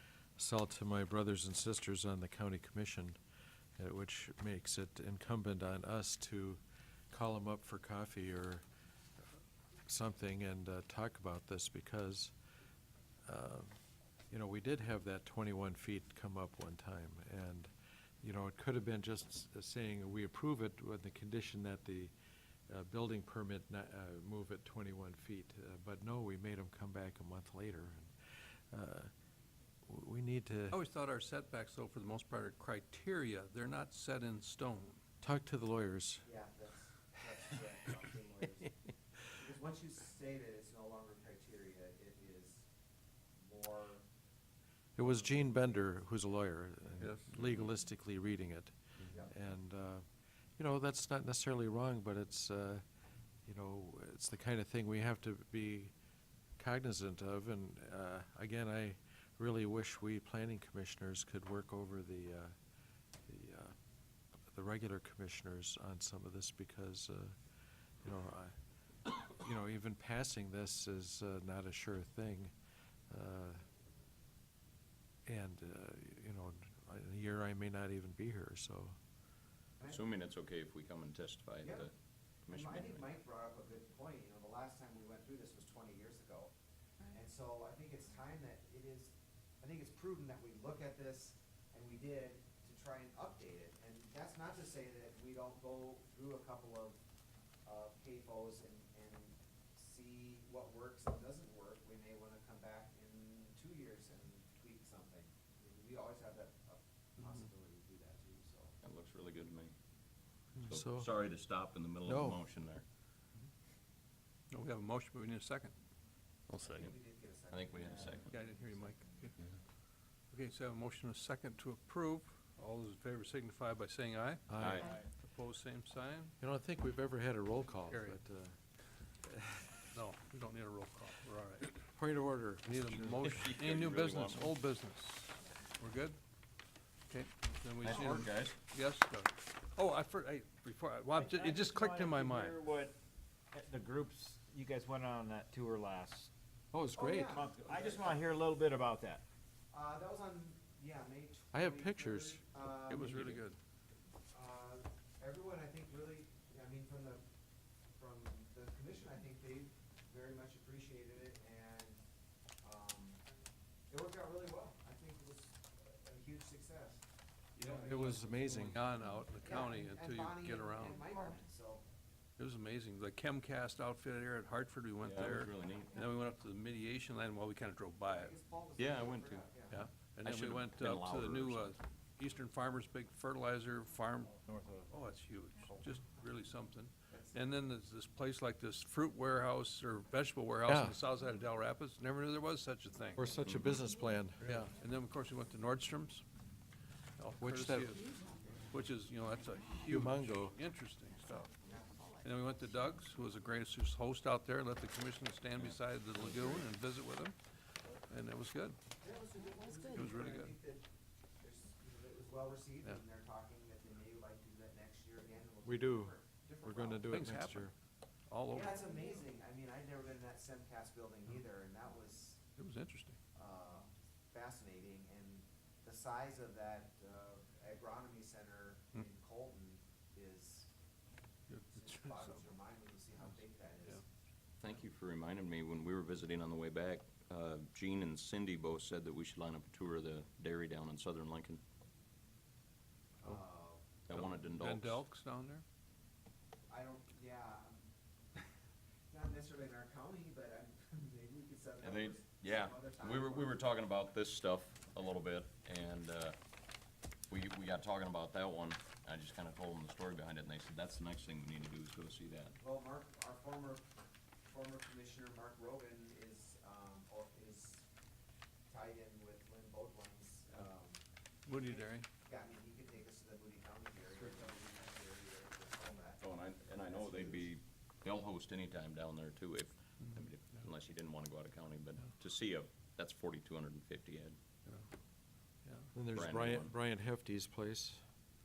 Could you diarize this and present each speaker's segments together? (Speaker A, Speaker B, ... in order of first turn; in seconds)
Speaker A: 0.4-3.2, 3.8-8.6, 9.9-12.3, 13.3-13.8, 14.3-22.1, 22.7-29.1, 29.9-30.8, 35.2-36.3, 45.0-50.0, 50.6-52.8, 53.5-55.9, 56.6-62.5, 63.3-63.8, 64.5-67.3, 68.0-68.6, 69.1-72.5, 73.1-73.6, 75.3-79.0, 110.7-111.1, 112.1-112.4, 124.5-125.0, 126.4-128.6, 132.0-133.4, 146.7-147.4, 151.5-153.2, 167.8-168.8, 190.7-191.0, 193.2-194.7, 197.4-198.0, 199.9-200.6, 215.6-217.7, 285.9-288.0
Speaker B: 30.7-35.0, 114.5-115.7, 118.3-119.4, 120.3-126.3, 127.9-128.2, 129.9-131.8, 132.7-136.2, 137.1-142.6, 152.9-153.6, 167.6-171.1, 172.4-178.3, 179.7-184.4, 184.9-193.2, 194.4-196.2, 197.2-198.2, 198.7-201.5, 202.2-207.4, 208.1-208.8, 209.9-210.5, 217.1-217.7, 218.3-219.0, 222.6-223.2, 231.5-232.4, 244.1-245.6, 271.5-272.1, 285.6-285.9
Speaker C: 36.2-42.6, 43.4-44.0, 45.0-45.8, 81.6-81.9, 82.5-86.5, 87.1-97.0, 97.7-108.7, 116.7-119.3, 146.9-148.2, 149.7-153.4, 154.3-157.2, 158.0-162.0, 162.6-163.2, 163.9-167.0, 167.6-168.8, 169.4-171.8, 178.1-179.8, 187.1-187.6, 201.7-202.1, 209.0-210.8, 211.4-217.3, 218.5-222.4, 223.3-230.7, 231.7-234.0, 243.2-243.8, 246.7-247.8, 249.1-253.6, 262.6-263.9, 264.5-267.9, 268.7-277.5
Speaker D: 79.9-81.9, 82.5-83.1, 108.8-109.7, 110.6-112.8, 116.5-116.9, 117.5-118.3, 124.6-124.9, 133.2-134.5, 137.8-138.6, 175.0-176.0, 178.8-179.5, 180.2-181.8, 193.5-193.8, 205.6-206.7, 234.6-241.6, 244.1-245.0, 251.8-256.4, 257.3-262.6, 276.2-284.4, 286.1-286.7
Speaker E: 141.1-143.0, 143.5-146.3, 147.3-149.2, 184.5-184.9